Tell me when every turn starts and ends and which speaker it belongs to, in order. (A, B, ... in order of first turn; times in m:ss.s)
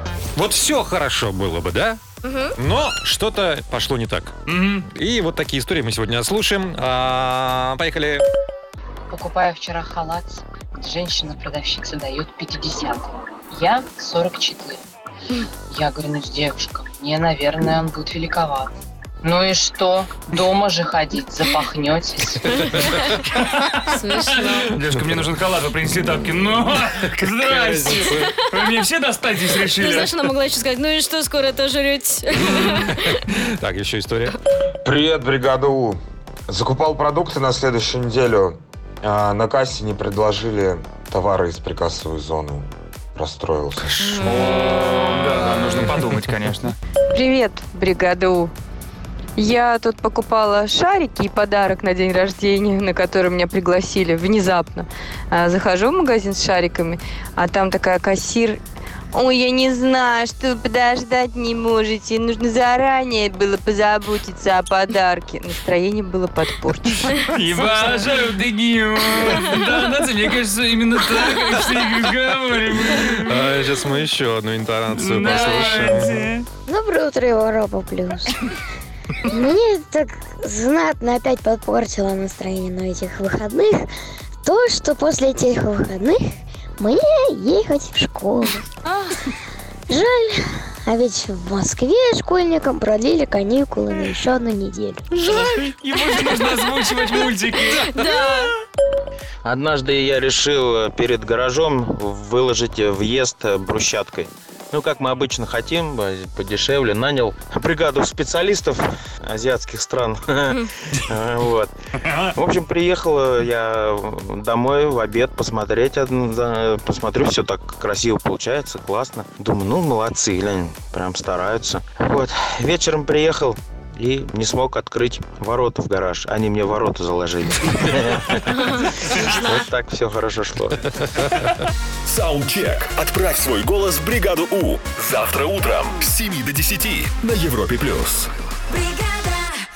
0:00.4-0:02.0 A
0:02.2-0:02.5 B
0:02.6-0:04.3 A
0:04.5-0:04.8 C
0:04.8-0:08.2 A
0:09.1-0:14.8 D
0:15.7-0:18.7 D
0:19.2-0:22.4 D
0:22.8-0:23.1 B
0:23.2-0:30.2 C
0:23.9-0:24.7 B
0:27.5-0:28.3 A
0:29.8-0:33.0 B
0:32.5-0:32.8 C
0:32.9-0:34.3 A
0:34.8-0:44.4 E
0:44.2-0:46.8 C
0:47.1-0:48.5 F
0:49.4-0:58.6 F
0:59.1-1:08.1 F
1:07.2-1:13.6 C
1:13.2-1:16.3 A
1:14.9-1:16.4 C
1:16.7-1:18.4 G
1:19.2-1:23.9 G
1:24.4-1:26.2 G
1:26.8-1:28.6 G
1:29.9-1:35.0 G
1:35.3-1:38.1 C
1:38.0-1:38.5 B
1:39.4-1:51.7 H
1:52.3-2:08.6 H
2:09.1-2:09.4 C
2:09.2-2:10.8 H
2:12.1-2:18.3 I
2:18.8-2:19.5 B